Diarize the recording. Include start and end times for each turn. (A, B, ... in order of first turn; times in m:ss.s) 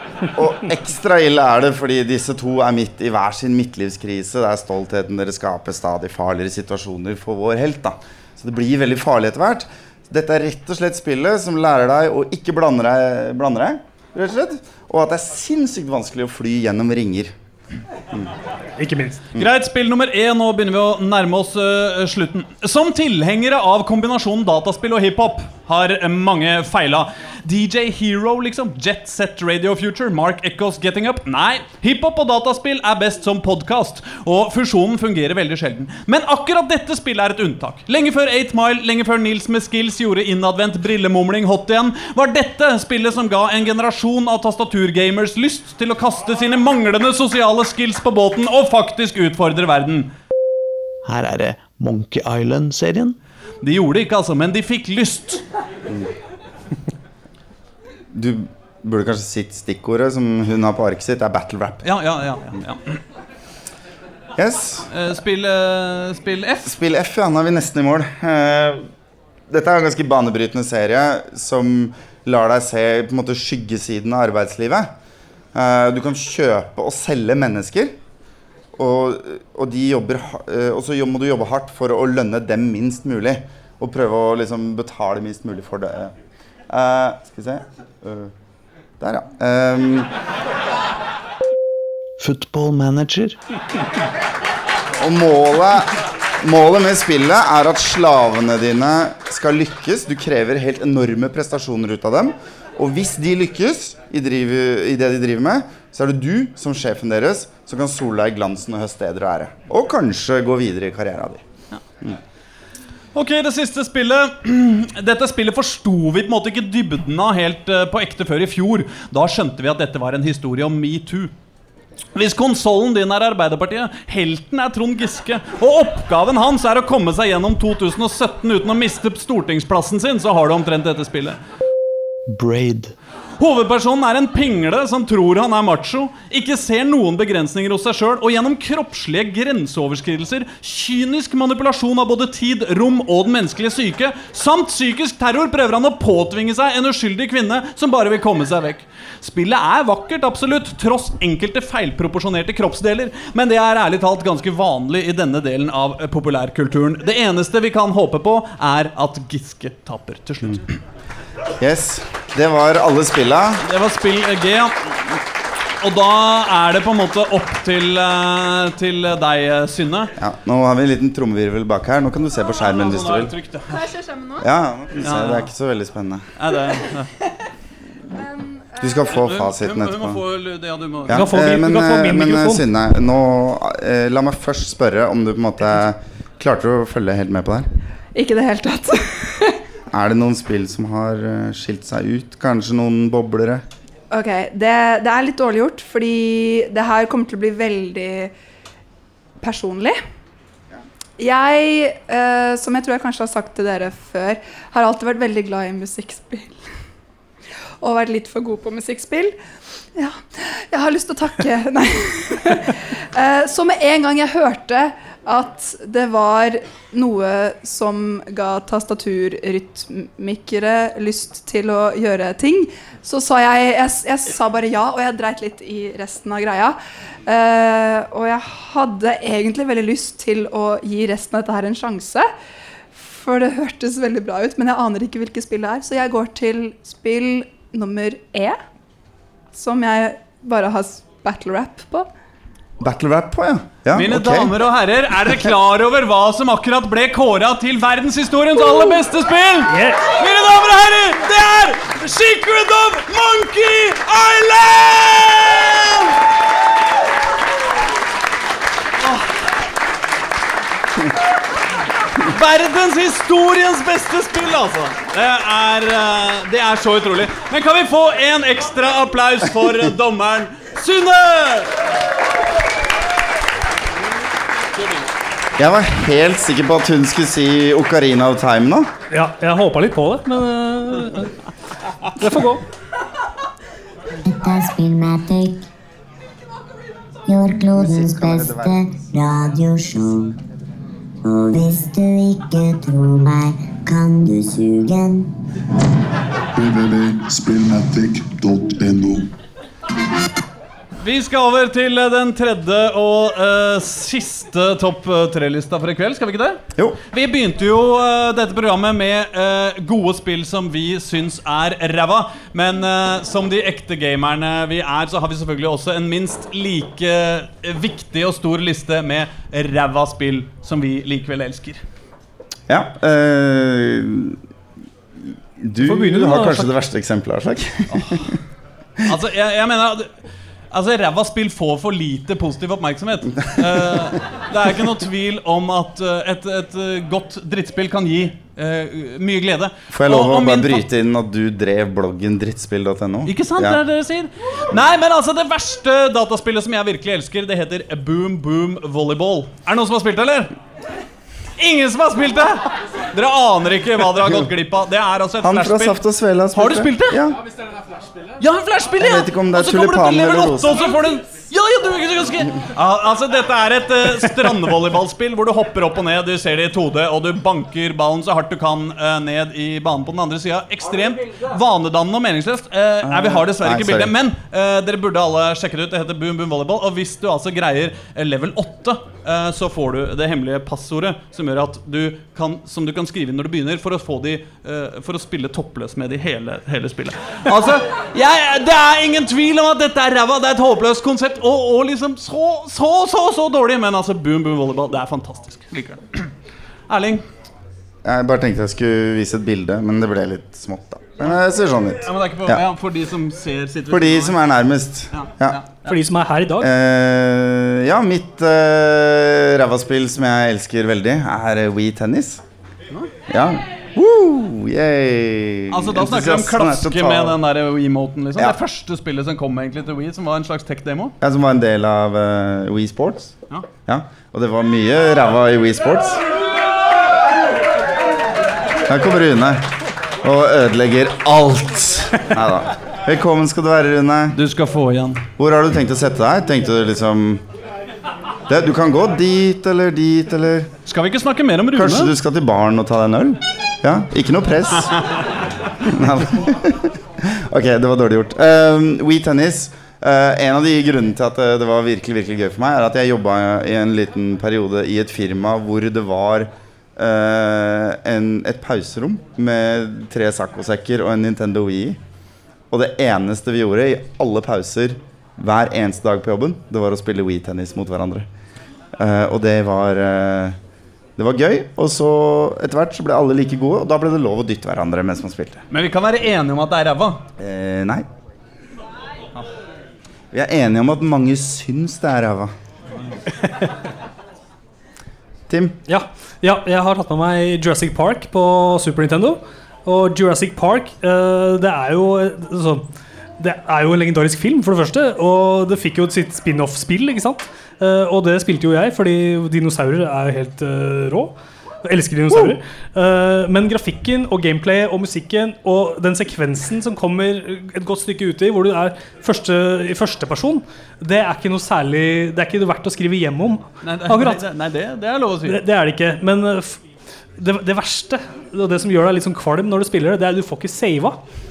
0:00.3-0:17.3 A
0:18.8-0:19.2 B
0:19.4-0:50.1 C
0:51.0-0:53.2 D
0:53.6-0:55.4 C
0:58.1-1:01.8 A
1:01.8-1:03.0 C
1:04.4-1:04.9 A
1:04.9-1:06.7 C
1:06.6-1:08.8 A
1:09.5-1:14.9 A
1:15.5-1:17.9 A
1:18.8-1:26.1 A
1:26.7-1:28.3 A
1:29.0-1:30.1 A
1:32.2-1:33.4 D
1:35.0-1:51.4 A
1:53.1-2:01.3 C
2:02.1-2:11.4 C
2:12.3-2:12.9 D
2:13.4-2:40.8 C
2:41.6-2:43.6 A
2:43.6-2:45.2 C
2:45.8-2:50.1 C
2:50.2-2:53.3 A
2:52.6-2:53.8 C
2:53.7-2:54.4 E
2:54.4-2:56.3 A
2:55.0-2:55.5 C
2:56.4-2:57.1 C
2:58.2-2:58.9 E
2:58.8-3:00.2 A
2:59.1-3:01.2 C
3:01.1-3:07.7 A
3:01.1-3:02.6 B
3:08.1-3:09.6 E
3:09.9-3:13.6 A
3:14.1-3:18.3 E
3:19.4-3:20.0 E
3:21.2-3:26.6 E
3:27.8-3:29.4 E
3:29.9-3:52.3 E
3:52.9-3:58.6 E
3:59.5-4:02.1 E
4:02.8-4:04.5 A
4:03.9-4:16.1 C
4:09.7-4:10.1 B
4:19.0-4:19.3 C
4:22.1-4:31.7 C
4:35.6-4:38.9 A
4:39.1-4:41.3 B
4:42.1-4:42.6 B
4:44.2-4:45.6 F
4:47.2-4:50.4 F
4:47.7-4:48.8 A
4:51.2-4:55.3 F
4:56.5-4:59.3 G
5:01.0-5:21.8 C
5:22.7-5:24.4 A
5:25.6-5:28.4 A
5:25.8-5:26.7 B
5:27.9-5:28.3 C
5:29.0-5:30.1 C
5:30.7-5:40.8 C
5:33.6-5:33.9 A
5:39.9-5:43.8 A
5:43.2-5:50.5 C
5:51.6-5:56.0 C
5:55.4-5:57.4 A
5:56.5-5:57.3 C
5:58.4-6:36.3 C
5:59.0-6:00.9 A
6:13.0-6:14.1 A
6:36.9-6:37.2 C
6:38.0-6:42.6 A
6:42.0-6:44.4 C
6:43.9-6:45.6 A
6:45.1-6:45.9 C
6:45.8-6:46.7 B
6:46.6-6:52.4 A
6:53.3-6:57.4 A
6:55.7-7:01.1 C
7:01.2-7:03.3 A
7:03.8-7:06.2 A
7:08.8-7:09.6 A
7:10.2-7:14.4 A
7:14.3-7:15.2 C
7:15.4-7:17.4 A
7:18.5-7:20.7 A
7:20.8-7:22.1 C
7:21.7-7:24.9 A
7:25.8-7:42.0 A
7:42.7-7:48.3 A
7:49.0-7:50.6 A
7:51.2-7:55.6 A
7:55.7-7:57.2 C
7:57.4-7:58.1 A
8:00.3-8:02.5 A
8:05.5-8:05.8 A
8:05.9-8:12.8 B
8:13.4-8:21.3 B
8:21.8-8:34.4 B
8:33.8-8:35.6 C
8:35.5-8:36.8 B
8:37.4-8:41.2 B